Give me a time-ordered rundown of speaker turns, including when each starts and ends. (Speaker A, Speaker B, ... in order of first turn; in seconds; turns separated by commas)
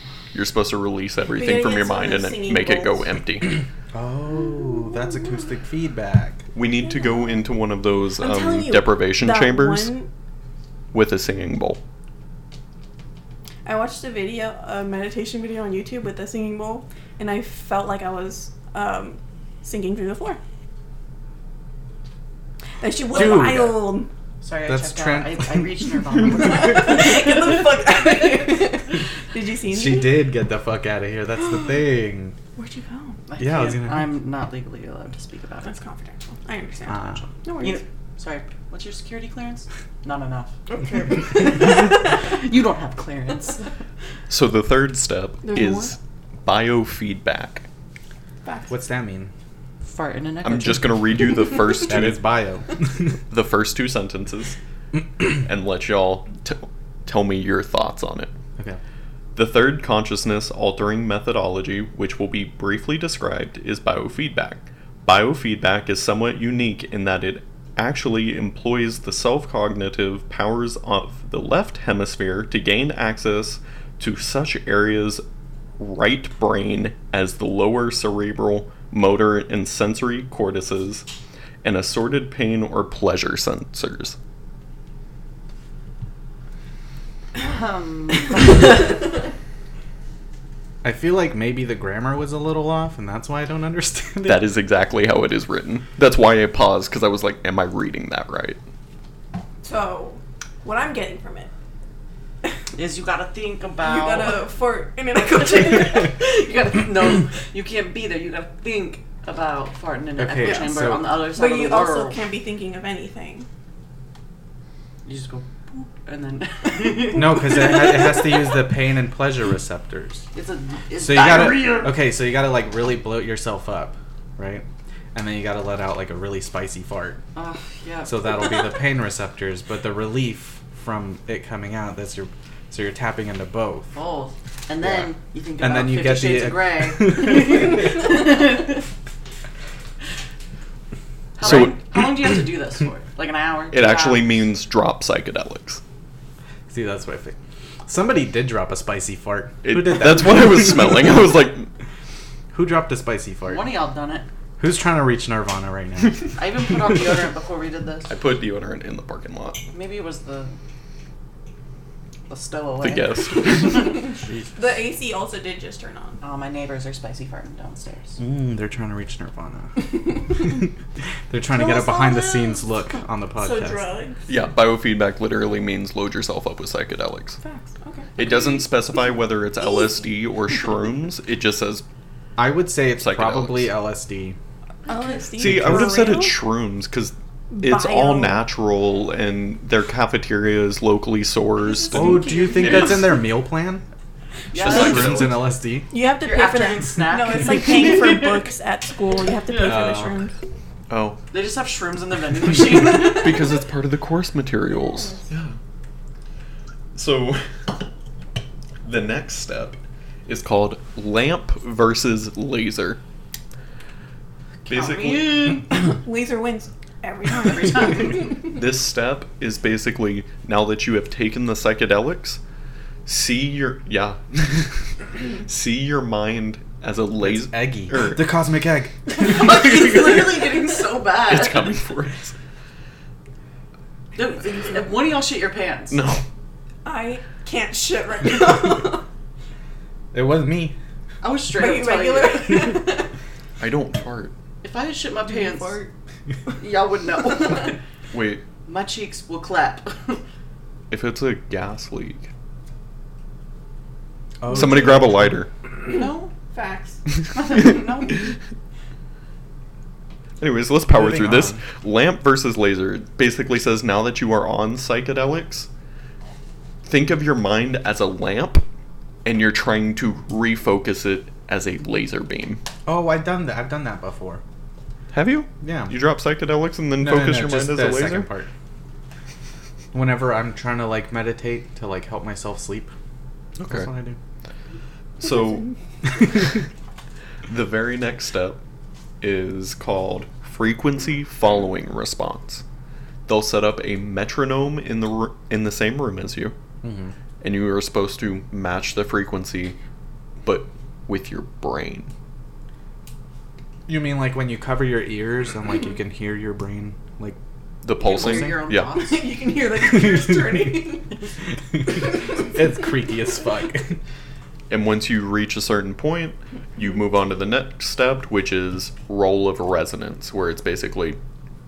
Speaker A: 0.3-3.6, Speaker B: 1.3-3.1, Speaker C: 3.9-6.5, Speaker B: 4.5-5.4, Speaker A: 6.5-9.9, Speaker B: 6.8-7.5, Speaker B: 8.2-10.1, Speaker A: 10.9-11.8, Speaker B: 13.7-20.4, Speaker B: 22.8-24.1, Speaker C: 23.1-24.0, Speaker D: 24.4-27.5, Speaker C: 24.7-26.0, Speaker B: 26.3-30.3, Speaker C: 29.7-32.4, Speaker B: 32.6-33.2, Speaker D: 33.3-35.7, Speaker C: 33.4-34.1, Speaker B: 35.6-37.8, Speaker C: 36.9-37.3, Speaker D: 37.6-40.6, Speaker B: 40.7-42.0, Speaker D: 41.4-43.7, Speaker A: 44.3-47.7, Speaker B: 45.4-45.9, Speaker B: 48.5-48.7, Speaker C: 48.7-49.3, Speaker D: 49.8-51.1, Speaker A: 50.4-52.3, Speaker C: 51.9-53.2, Speaker A: 53.3-54.6, Speaker A: 55.3-58.3, Speaker A: 59.4-75.2, Speaker A: 75.8-81.1, Speaker A: 81.6-84.2, Speaker D: 87.4-89.2, Speaker C: 90.8-94.5, Speaker A: 94.2-98.6, Speaker B: 99.6-101.5, Speaker D: 102.7-104.5, Speaker B: 103.8-106.2, Speaker D: 105.8-112.2, Speaker C: 110.2-111.1, Speaker B: 110.4-113.5, Speaker D: 115.0-118.6, Speaker C: 117.1-120.3, Speaker D: 120.3-122.0, Speaker C: 121.0-127.2, Speaker D: 127.3-128.8, Speaker C: 128.1-133.9, Speaker D: 133.9-138.9, Speaker C: 134.8-138.1, Speaker D: 141.4-144.4, Speaker A: 141.4-142.0, Speaker A: 143.7-145.8, Speaker C: 146.7-151.2, Speaker A: 149.6-151.7, Speaker C: 152.5-153.7, Speaker D: 153.5-154.3, Speaker C: 154.6-156.4, Speaker D: 156.4-158.1, Speaker A: 158.1-159.6, Speaker D: 159.7-160.6, Speaker D: 162.3-164.1, Speaker A: 162.8-164.0, Speaker B: 163.9-166.2, Speaker C: 164.3-164.5, Speaker D: 166.2-168.2, Speaker C: 168.2-170.7, Speaker C: 171.3-173.9, Speaker D: 171.5-172.8, Speaker B: 173.4-174.3, Speaker A: 174.3-177.4, Speaker B: 177.4-178.5, Speaker A: 178.2-181.8, Speaker C: 182.4-184.4, Speaker A: 182.9-183.7, Speaker D: 184.8-185.3, Speaker B: 184.8-186.5, Speaker A: 185.4-193.2, Speaker C: 185.4-186.2, Speaker B: 187.5-188.4, Speaker D: 191.6-193.2, Speaker C: 191.9-193.8, Speaker D: 194.5-195.3, Speaker A: 194.6-195.6, Speaker C: 194.6-195.9, Speaker B: 195.9-200.3, Speaker D: 196.2-198.5, Speaker D: 199.5-199.8, Speaker C: 199.6-200.2, Speaker A: 200.9-201.2, Speaker D: 201.3-203.5, Speaker A: 202.9-205.6, Speaker B: 204.7-205.3, Speaker A: 206.9-207.7, Speaker A: 208.8-213.0, Speaker D: 214.7-215.8, Speaker A: 214.7-215.6, Speaker B: 215.7-218.4, Speaker D: 217.4-218.3, Speaker A: 218.3-222.4, Speaker A: 223.1-224.7, Speaker A: 225.4-228.3, Speaker C: 227.2-229.8, Speaker D: 229.1-231.8, Speaker A: 231.3-232.3, Speaker D: 234.2-236.0, Speaker A: 235.9-236.2, Speaker B: 236.8-239.0, Speaker C: 240.1-240.8, Speaker D: 241.2-242.8, Speaker B: 241.5-243.1, Speaker A: 243.6-244.3, Speaker D: 244.6-245.8, Speaker B: 245.2-245.9, Speaker D: 246.6-247.8, Speaker A: 248.1-248.4, Speaker D: 248.7-250.2, Speaker A: 250.9-252.3, Speaker C: 254.4-255.5, Speaker A: 254.5-255.5, Speaker B: 255.8-257.0, Speaker D: 255.8-256.3, Speaker D: 257.3-258.4, Speaker A: 260.4-265.7, Speaker C: 260.9-261.6, Speaker A: 266.9-268.6, Speaker A: 269.2-272.6, Speaker C: 272.9-274.4, Speaker A: 275.1-278.3, Speaker C: 275.6-276.0, Speaker C: 277.0-278.5, Speaker C: 279.9-282.9, Speaker A: 283.6-283.9, Speaker C: 283.7-284.2, Speaker A: 285.2-285.7, Speaker A: 287.5-288.6, Speaker A: 289.2-292.6, Speaker A: 293.3-296.6, Speaker C: 296.8-297.1, Speaker A: 297.4-299.8, Speaker A: 300.4-302.1, Speaker C: 303.9-307.4, Speaker A: 307.8-308.9, Speaker D: 308.0-309.3, Speaker C: 308.1-308.6, Speaker B: 309.0-311.2, Speaker C: 309.8-310.8, Speaker C: 311.7-314.0, Speaker A: 314.7-321.2